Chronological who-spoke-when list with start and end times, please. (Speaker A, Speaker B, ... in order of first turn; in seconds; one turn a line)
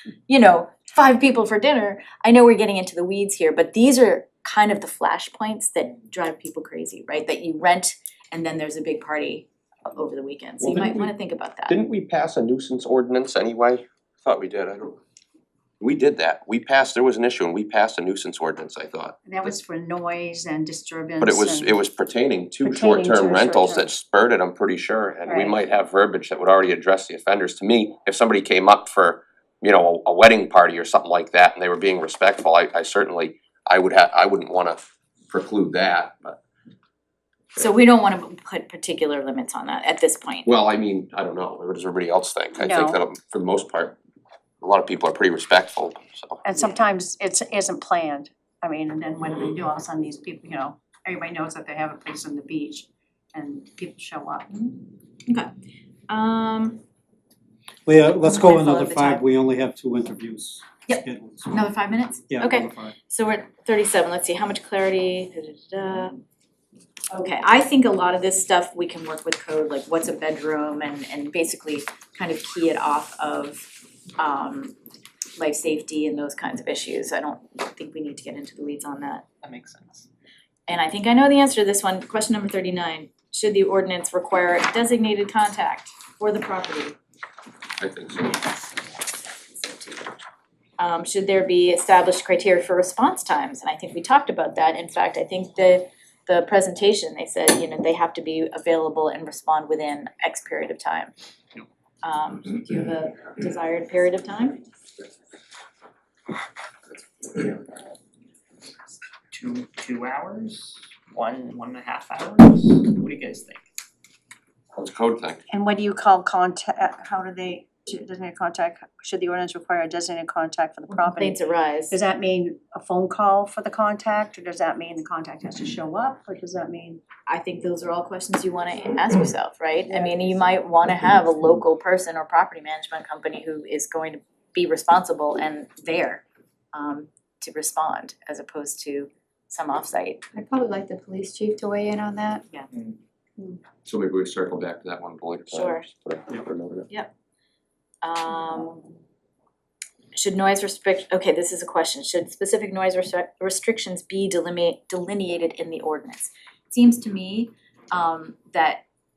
Speaker A: 0.3-11.8
Speaker B: 10.6-11.1
Speaker B: 11.7-15.0
Speaker B: 15.8-19.5
Speaker C: 19.2-21.8
Speaker B: 21.2-36.4
Speaker C: 22.6-23.9
Speaker C: 25.3-25.6
Speaker A: 37.6-40.5
Speaker B: 40.5-44.0
Speaker C: 42.6-43.0
Speaker B: 44.6-46.4
Speaker C: 46.4-54.5
Speaker A: 46.6-46.8
Speaker A: 54.5-55.5
Speaker A: 56.1-56.8
Speaker D: 57.9-61.6
Speaker A: 58.2-59.2
Speaker A: 60.9-66.2
Speaker D: 62.3-62.9
Speaker A: 67.1-74.8
Speaker A: 75.4-79.2
Speaker E: 79.4-80.1
Speaker A: 80.7-87.0
Speaker B: 87.8-88.5
Speaker A: 89.4-90.1
Speaker A: 90.8-101.1
Speaker A: 102.0-104.6
Speaker E: 109.3-113.6
Speaker B: 114.8-115.4
Speaker C: 115.5-121.4
Speaker A: 121.1-122.0
Speaker C: 121.9-127.0
Speaker A: 127.3-140.2
Speaker C: 129.9-130.3
Speaker F: 140.3-142.4
Speaker B: 143.8-146.9
Speaker A: 145.5-145.9
Speaker A: 148.0-148.8
Speaker A: 150.1-158.8